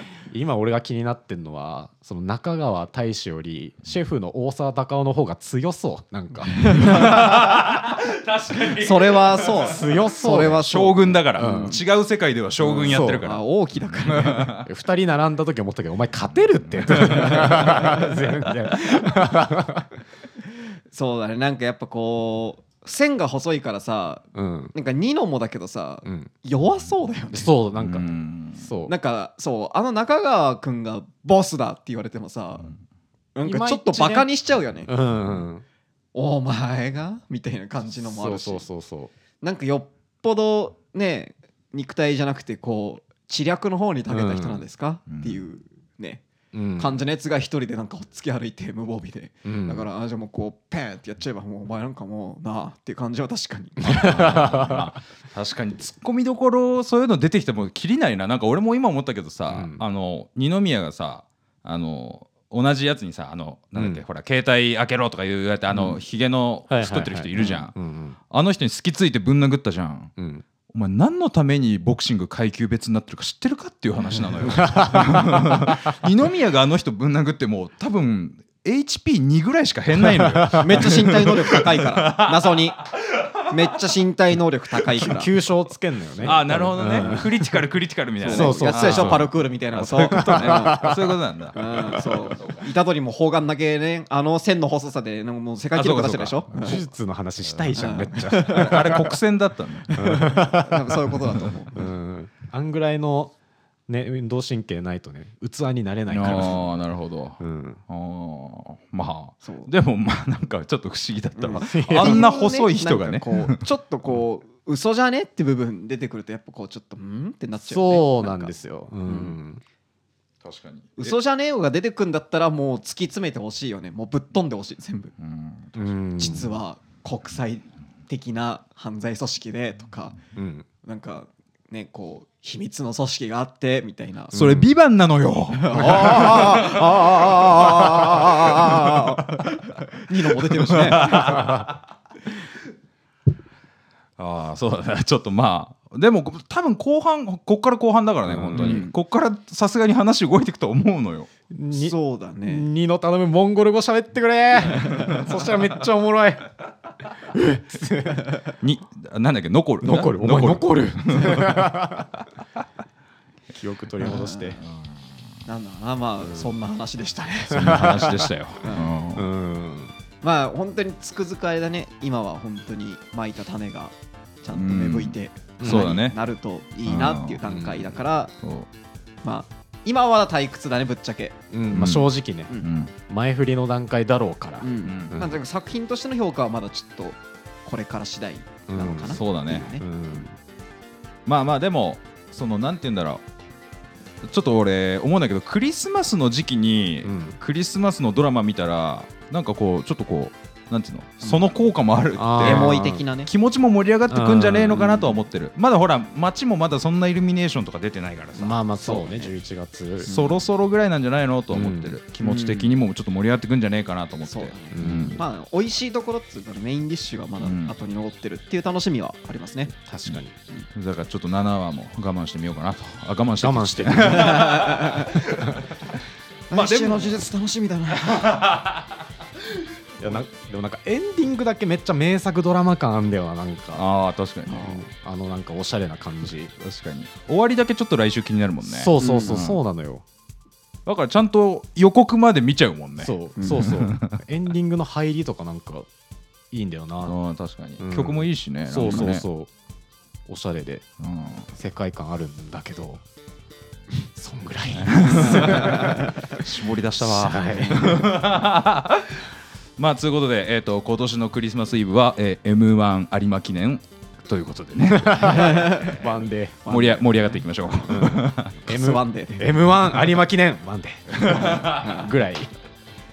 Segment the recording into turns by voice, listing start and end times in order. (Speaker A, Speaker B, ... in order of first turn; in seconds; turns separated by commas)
Speaker A: 0.3-6.9, Speaker B: 6.5-9.7, Speaker C: 6.5-7.6, Speaker C: 8.7-11.8, Speaker A: 9.6-10.7, Speaker B: 10.3-14.7, Speaker A: 11.3-11.8, Speaker C: 12.6-14.6, Speaker A: 12.7-13.2, Speaker A: 14.6-20.0, Speaker B: 16.7-17.9, Speaker C: 17.6-18.0, Speaker C: 20.9-27.5, Speaker A: 24.3-24.7, Speaker A: 26.0-26.3, Speaker A: 27.3-28.9, Speaker B: 27.8-28.7, Speaker C: 28.9-32.7, Speaker C: 33.3-34.9, Speaker A: 33.4-34.3, Speaker A: 34.9-35.6, Speaker C: 36.1-38.6, Speaker A: 38.0-39.1, Speaker C: 39.4-46.2, Speaker A: 44.1-44.6, Speaker B: 45.1-45.4, Speaker A: 46.5-47.0, Speaker C: 46.8-54.5, Speaker A: 49.4-49.9, Speaker B: 53.8-67.7, Speaker A: 53.8-54.9, Speaker A: 59.5-59.8, Speaker A: 63.8-64.0, Speaker A: 65.7-66.0, Speaker A: 66.7-68.2, Speaker B: 68.3-70.1, Speaker A: 70.2-70.4, Speaker B: 70.7-84.0, Speaker A: 74.1-75.9, Speaker A: 80.0-80.8, Speaker C: 80.5-82.8, Speaker C: 83.5-85.3, Speaker A: 84.9-87.6, Speaker B: 86.2-92.6, Speaker C: 88.2-90.9, Speaker A: 88.2-91.2, Speaker C: 91.5-96.8, Speaker A: 92.0-92.2, Speaker B: 95.7-96.8, Speaker A: 96.6-99.1, Speaker B: 97.4-100.3, Speaker C: 97.7-99.2, Speaker C: 99.9-101.8, Speaker A: 99.9-101.1, Speaker A: 101.7-103.3, Speaker A: 103.9-106.8, Speaker B: 106.1-113.6, Speaker C: 106.2-106.6, Speaker A: 107.4-107.8, Speaker C: 109.4-109.7, Speaker C: 111.4-119.3, Speaker A: 111.5-112.2, Speaker A: 117.6-119.6, Speaker B: 120.4-121.1, Speaker C: 121.0-125.1, Speaker B: 125.2-125.9, Speaker A: 125.8-126.5, Speaker C: 126.2-130.2, Speaker A: 130.3-130.7, Speaker C: 130.8-134.3, Speaker A: 134.3-134.7, Speaker B: 134.3-139.1, Speaker C: 135.5-141.6, Speaker A: 135.8-136.3, Speaker B: 140.7-141.8, Speaker A: 141.3-141.6, Speaker B: 144.2-151.3, Speaker A: 148.2-148.8, Speaker C: 148.5-148.9, Speaker A: 151.5-156.5, Speaker C: 151.7-152.7, Speaker C: 154.7-155.3, Speaker A: 157.2-158.4, Speaker B: 158.6-161.7, Speaker A: 159.8-162.2, Speaker A: 163.5-164.6, Speaker C: 164.0-164.6, Speaker B: 164.7-164.9, Speaker C: 165.4-167.9, Speaker A: 166.2-166.5, Speaker A: 167.5-168.3, Speaker B: 167.5-169.3, Speaker C: 168.6-168.9, Speaker A: 169.2-169.9, Speaker C: 170.2-178.3, Speaker B: 174.5-176.2, Speaker A: 175.6-176.0, Speaker B: 176.8-177.4, Speaker A: 177.4-177.9, Speaker B: 178.4-178.7, Speaker C: 179.2-181.3, Speaker A: 181.5-182.5, Speaker B: 181.7-182.1, Speaker B: 182.6-182.9, Speaker A: 183.1-185.4, Speaker C: 184.6-189.8, Speaker B: 184.8-185.2, Speaker A: 188.7-190.4, Speaker B: 189.1-189.7, Speaker B: 191.2-193.2, Speaker B: 194.2-208.6, Speaker A: 197.0-197.4, Speaker A: 202.2-203.0, Speaker C: 202.4-203.3, Speaker A: 204.1-205.2, Speaker A: 208.4-210.1, Speaker C: 208.8-209.3, Speaker C: 210.0-210.4, Speaker B: 210.0-215.2, Speaker A: 211.5-212.0, Speaker C: 212.2-212.8, Speaker C: 214.3-219.7, Speaker A: 214.7-215.2, Speaker B: 217.4-217.7, Speaker A: 219.8-220.4, Speaker B: 220.7-225.6, Speaker A: 223.4-225.7, Speaker C: 224.1-225.2, Speaker C: 226.5-228.4, Speaker B: 226.5-227.3, Speaker B: 228.0-228.8, Speaker A: 230.0-233.9, Speaker B: 233.7-234.8, Speaker C: 234.5-234.8, Speaker A: 234.5-236.5, Speaker B: 236.6-239.6, Speaker A: 238.6-240.0, Speaker C: 239.0-239.4, Speaker B: 240.8-244.2, Speaker A: 243.0-245.9, Speaker C: 243.3-243.7, Speaker A: 246.5-247.2, Speaker B: 247.0-249.2, Speaker A: 247.8-249.5, Speaker A: 250.3-250.8, Speaker B: 251.0-251.5, Speaker A: 251.5-253.0, Speaker A: 254.1-256.4, Speaker B: 254.7-266.1, Speaker C: 255.2-256.1, Speaker A: 257.0-258.1, Speaker A: 264.9-266.8, Speaker C: 265.2-266.0, Speaker C: 266.6-267.2, Speaker B: 266.7-268.6, Speaker A: 267.8-272.5, Speaker C: 268.6-269.5, Speaker B: 271.2-271.9, Speaker C: 271.4-272.1